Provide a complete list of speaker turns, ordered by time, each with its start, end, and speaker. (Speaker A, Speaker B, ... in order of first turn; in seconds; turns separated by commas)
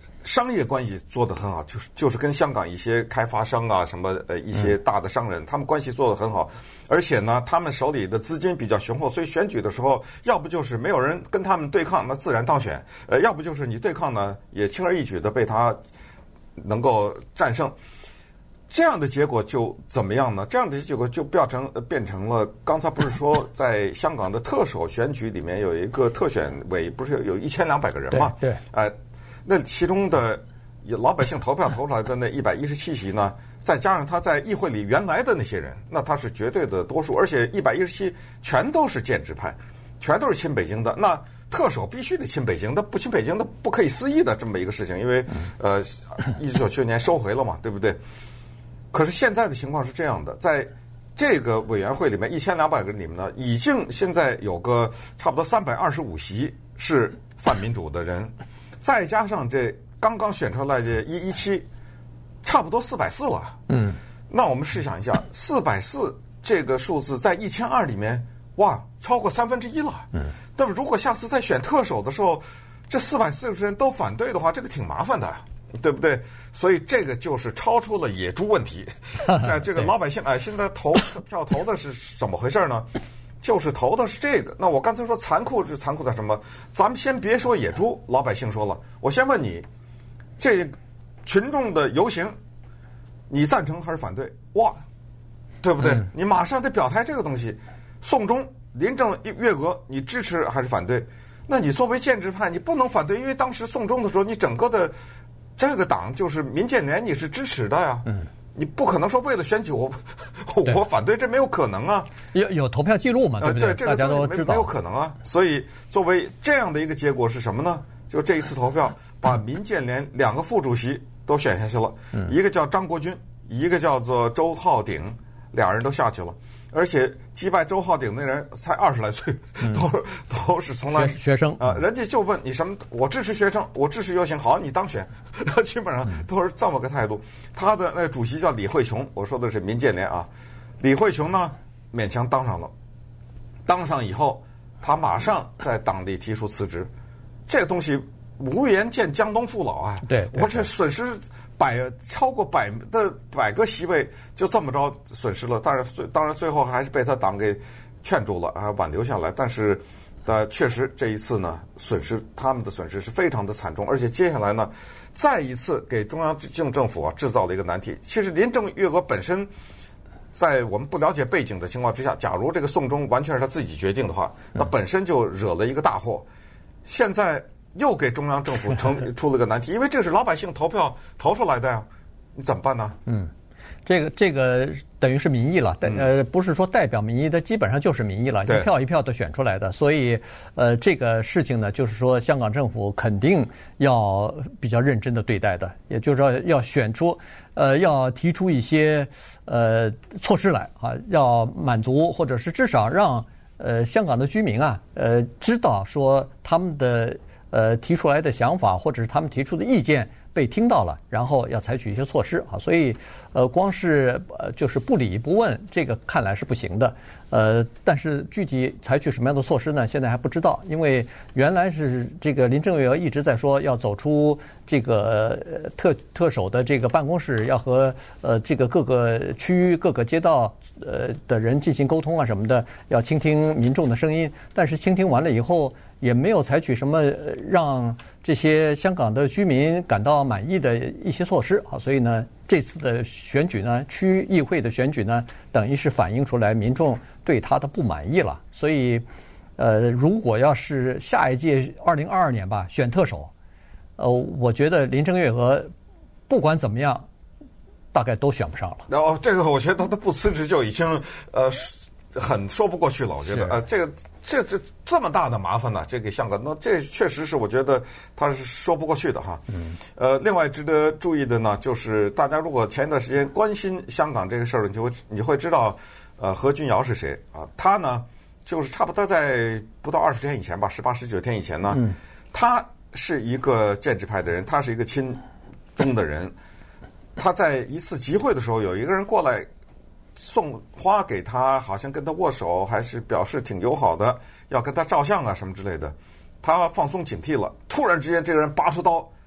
Speaker A: 0.2-15.8, Speaker A: 16.6-17.7, Speaker A: 18.7-48.0, Speaker B: 28.1-28.6, Speaker A: 48.9-61.6, Speaker A: 62.4-63.6, Speaker B: 63.7-64.0, Speaker A: 64.3-82.9, Speaker A: 83.4-89.7, Speaker A: 90.4-92.3, Speaker A: 93.3-94.8, Speaker A: 95.6-104.9, Speaker A: 105.6-112.1, Speaker B: 112.3-114.7, Speaker A: 113.4-140.3, Speaker B: 130.9-131.7, Speaker A: 140.8-142.7, Speaker A: 143.7-146.9, Speaker A: 147.5-169.5, Speaker B: 150.1-150.7, Speaker A: 170.3-176.3, Speaker A: 176.8-183.0, Speaker B: 183.1-183.3, Speaker B: 183.8-249.0, Speaker B: 249.6-253.3, Speaker B: 254.0-255.7, Speaker B: 256.3-257.1, Speaker B: 257.9-258.9, Speaker A: 258.9-285.2, Speaker B: 263.2-263.6, Speaker A: 285.8-286.3, Speaker A: 287.2-289.5, Speaker A: 290.1-299.1